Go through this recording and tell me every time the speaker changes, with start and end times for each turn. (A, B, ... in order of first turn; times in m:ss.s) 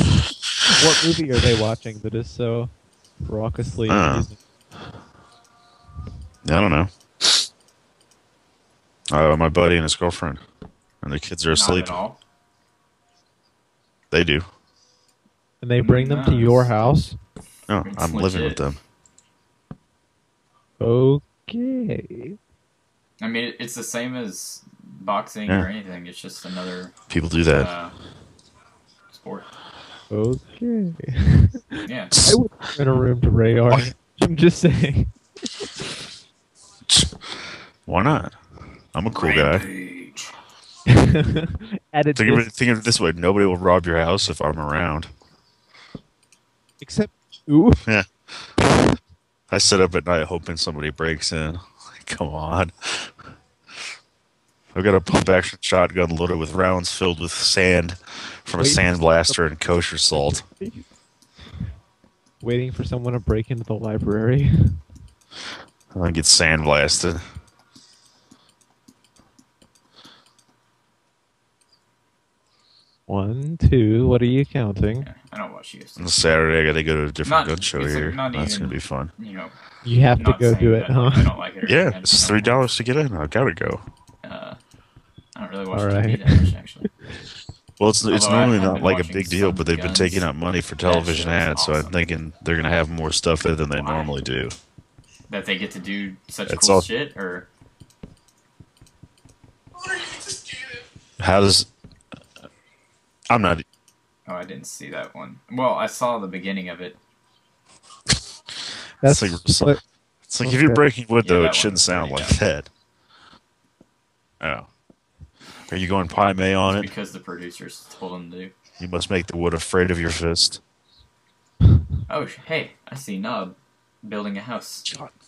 0:00.6-0:02.7 A
0:03.2-0:04.4 A
0:03.9-0:04.3 B
0:06.4-0:07.5 B
0:09.1-0:10.4 B
0:11.0-0:12.0 B
0:11.5-0:12.2 C
0:14.1-0:14.5 B
0:15.6-0:17.2 A
0:15.8-0:16.7 C
0:17.7-0:18.8 B
0:17.8-0:18.6 C
0:20.8-0:22.4 A
0:23.2-0:26.9 C
0:27.1-0:27.7 B
0:27.5-0:28.0 C
0:29.1-0:29.5 C
0:30.1-0:35.7 A
0:31.8-0:32.1 C
0:32.1-0:32.4 B
0:36.9-0:37.2 B
0:37.9-0:38.4 B
0:38.9-0:39.7 B
0:39.1-0:40.3 C
0:40.9-0:42.5 A
0:42.2-0:45.1 B
0:46.8-0:47.8 A
0:48.6-0:49.0 A
0:49.5-0:53.2 B
0:54.7-1:00.4 B
0:58.6-0:59.4 A
1:00.1-1:00.8 A
1:02.4-1:04.8 A
1:05.9-1:07.2 B
1:13.1-1:15.1 A
1:15.0-1:16.1 C
1:16.0-1:19.1 B
1:17.2-1:19.6 C
1:19.8-1:21.3 A
1:20.2-1:22.6 C
1:21.6-1:23.8 B
1:24.2-1:24.6 C
1:25.4-1:26.9 C
1:25.7-1:27.0 A
1:27.8-1:34.6 B
1:28.1-1:30.3 C
1:30.8-1:32.0 C
1:33.7-1:34.1 C
1:35.3-1:37.5 C
1:36.5-1:36.9 B
1:41.2-1:41.7 B
1:43.3-1:43.6 B
1:44.3-1:47.0 C
1:49.0-1:49.8 A
1:49.0-1:52.7 B
1:50.4-1:50.8 A
1:51.2-1:52.4 C
1:54.4-1:54.7 B
1:55.7-1:56.9 B
1:56.7-1:58.5 C
1:58.8-2:00.6 B
2:02.1-2:04.9 C
2:04.9-2:05.1 B